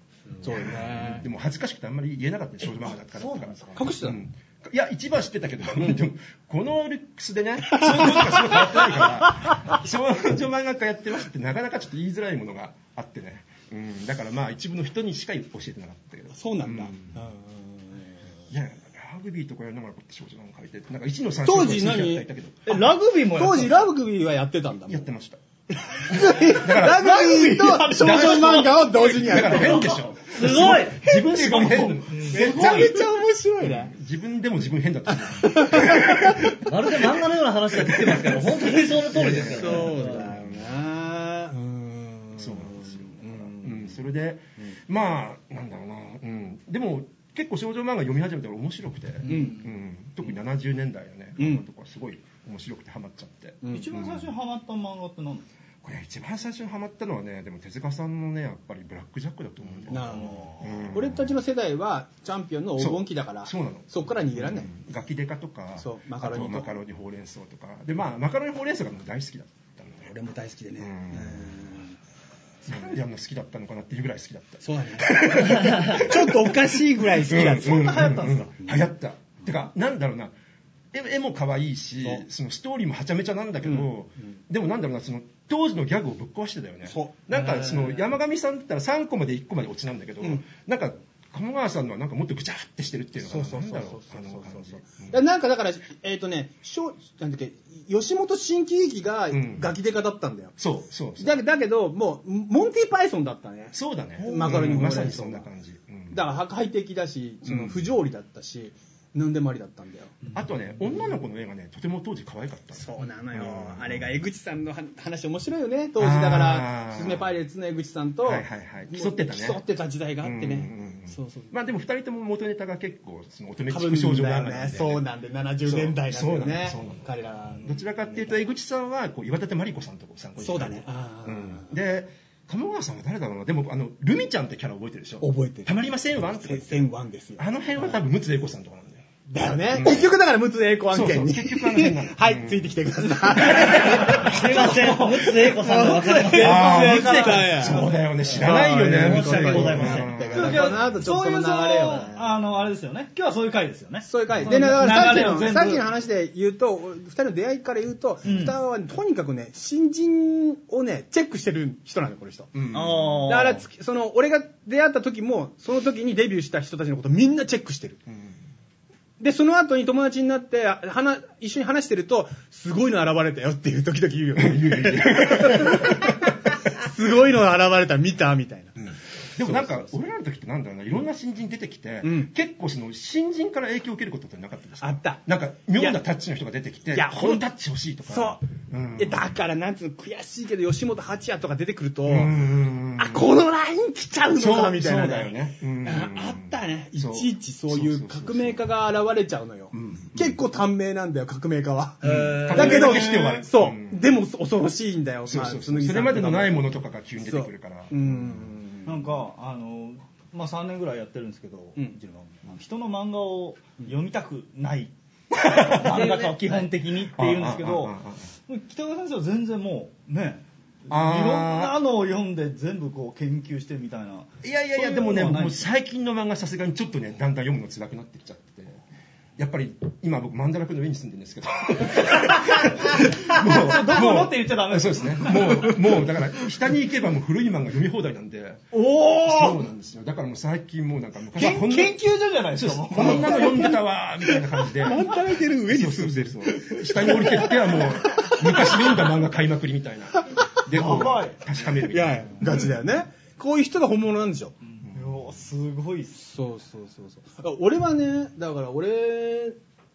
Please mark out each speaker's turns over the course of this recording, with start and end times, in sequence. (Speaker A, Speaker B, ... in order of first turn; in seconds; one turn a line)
Speaker A: 0.4-1.2
Speaker B: 0.5-17.2
Speaker C: 3.2-3.8
Speaker A: 3.8-4.2
Speaker A: 7.7-9.0
Speaker A: 16.3-18.1
Speaker B: 18.5-22.9
Speaker A: 21.4-25.1
Speaker D: 22.7-23.9
Speaker B: 24.9-25.4
Speaker A: 25.7-30.1
Speaker B: 26.1-27.1
Speaker D: 26.8-29.8
Speaker B: 28.0-36.6
Speaker C: 30.2-31.1
Speaker D: 30.5-32.9
Speaker A: 31.4-33.9
Speaker A: 35.1-36.7
Speaker C: 36.6-40.3
Speaker B: 37.7-40.6
Speaker A: 39.1-44.0
Speaker B: 42.4-54.3
Speaker A: 49.2-49.6
Speaker A: 51.4-51.6
Speaker A: 53.6-54.0
Speaker D: 53.7-55.5
Speaker B: 55.8-61.3
Speaker A: 59.9-64.7
Speaker D: 59.9-60.8
Speaker B: 62.8-70.1
Speaker A: 65.8-66.8
Speaker A: 70.0-72.0
Speaker B: 70.8-71.6
Speaker A: 72.7-72.9
Speaker B: 72.7-80.3
Speaker A: 74.6-78.8
Speaker D: 77.6-78.5
Speaker B: 80.9-95.2
Speaker A: 83.6-84.2
Speaker A: 86.9-87.8
Speaker A: 93.2-100.5
Speaker B: 99.3-99.7
Speaker B: 100.6-101.4
Speaker A: 101.2-105.5
Speaker B: 103.7-106.2
Speaker A: 106.1-110.2
Speaker B: 107.5-107.8
Speaker B: 110.3-114.1
Speaker A: 112.7-121.5
Speaker B: 116.0-117.3
Speaker B: 118.2-119.6
Speaker B: 120.2-125.0
Speaker A: 123.7-128.3
Speaker B: 125.7-127.1
Speaker B: 127.6-139.1
Speaker A: 130.4-131.7
Speaker A: 135.2-137.5
Speaker A: 139.3-152.3
Speaker B: 139.7-140.1
Speaker B: 140.9-142.7
Speaker C: 143.5-147.0
Speaker D: 143.6-147.9
Speaker B: 146.3-150.9
Speaker C: 148.2-150.1
Speaker D: 149.2-155.8
Speaker A: 154.1-162.6
Speaker D: 158.2-158.6
Speaker B: 162.5-163.3
Speaker D: 162.7-163.6
Speaker A: 163.3-168.0
Speaker B: 168.1-168.4
Speaker A: 169.2-178.8
Speaker B: 174.4-176.2
Speaker B: 178.8-189.2
Speaker A: 179.4-180.0
Speaker A: 182.0-182.3
Speaker A: 184.8-185.2
Speaker A: 186.9-187.4
Speaker A: 188.1-188.4
Speaker A: 189.0-192.4
Speaker B: 192.1-193.3
Speaker A: 193.0-209.1
Speaker B: 194.4-198.6
Speaker B: 199.7-200.4
Speaker C: 202.0-202.7
Speaker B: 202.1-204.0
Speaker D: 202.4-203.4
Speaker B: 205.3-208.4
Speaker D: 208.9-218.0
Speaker B: 215.3-216.1
Speaker C: 215.8-216.7
Speaker B: 217.1-218.3
Speaker D: 218.5-225.7
Speaker B: 220.9-221.8
Speaker B: 224.4-228.8
Speaker B: 229.4-242.0
Speaker D: 232.1-236.0
Speaker D: 238.7-239.7
Speaker D: 241.3-243.7
Speaker B: 242.5-252.6
Speaker A: 242.9-243.8
Speaker A: 244.8-248.8
Speaker D: 250.7-251.4
Speaker A: 251.9-254.6
Speaker B: 254.8-255.1
Speaker D: 254.9-256.3
Speaker A: 256.2-259.6